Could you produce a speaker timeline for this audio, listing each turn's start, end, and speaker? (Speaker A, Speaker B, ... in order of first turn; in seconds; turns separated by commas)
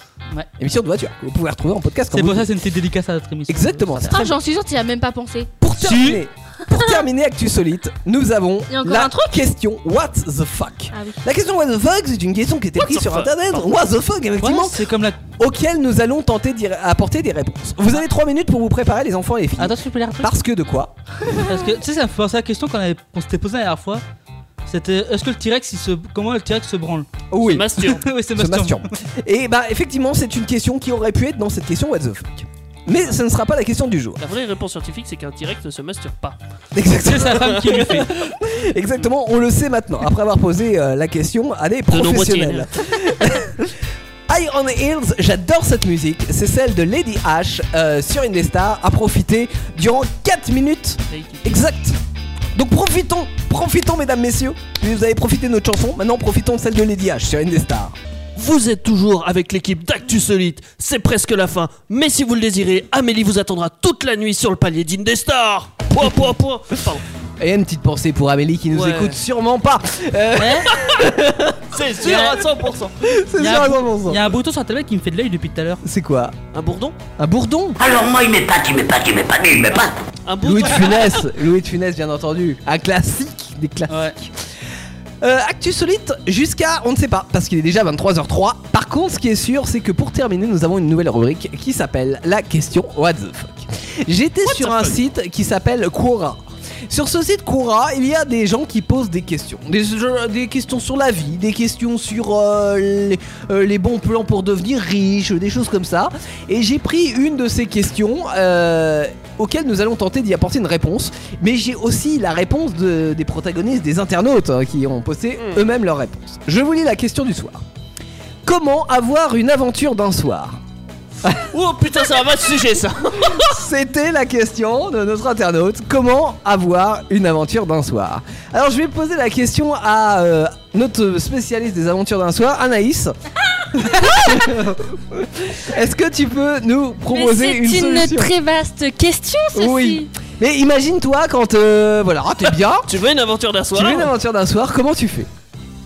Speaker A: 0.6-2.5, Speaker B: 2.1-4.1, Speaker A: 3.5-4.4, Speaker C: 4.1-5.5, Speaker A: 5.6-20.9, Speaker B: 5.8-6.2, Speaker C: 6.7-7.0, Speaker C: 8.7-9.3, Speaker D: 12.8-13.7, Speaker B: 14.4-15.2, Speaker B: 19.6-20.3, Speaker B: 21.4-24.0, Speaker B: 24.7-27.2, Speaker A: 27.3-34.2, Speaker D: 27.4-28.0, Speaker B: 27.9-28.9, Speaker D: 34.2-36.4, Speaker A: 36.7-43.8, Speaker B: 37.0-38.1, Speaker D: 37.3-37.8, Speaker D: 41.9-43.1, Speaker A: 44.3-52.0, Speaker D: 51.1-51.5, Speaker A: 52.5-58.0, Speaker D: 58.4-67.0, Speaker A: 67.4-72.3, Speaker D: 68.7-69.2, Speaker B: 70.4-70.7, Speaker D: 71.7-73.0, Speaker B: 72.0-72.3, Speaker A: 73.0-74.3, Speaker B: 73.4-75.8, Speaker A: 75.8-76.3, Speaker D: 76.5-77.0, Speaker A: 77.2-77.8, Speaker E: 77.8-79.9, Speaker D: 80.3-81.2, Speaker A: 80.4-84.3, Speaker A: 85.2-117.6, Speaker D: 94.5-95.0, Speaker D: 115.4-115.6, Speaker A: 118.5-120.6, Speaker D: 121.5-123.6, Speaker A: 123.2-133.2, Speaker A: 133.7-138.3, Speaker C: 137.1-140.1, Speaker A: 139.5-142.9, Speaker D: 142.9-144.1, Speaker A: 143.7-145.3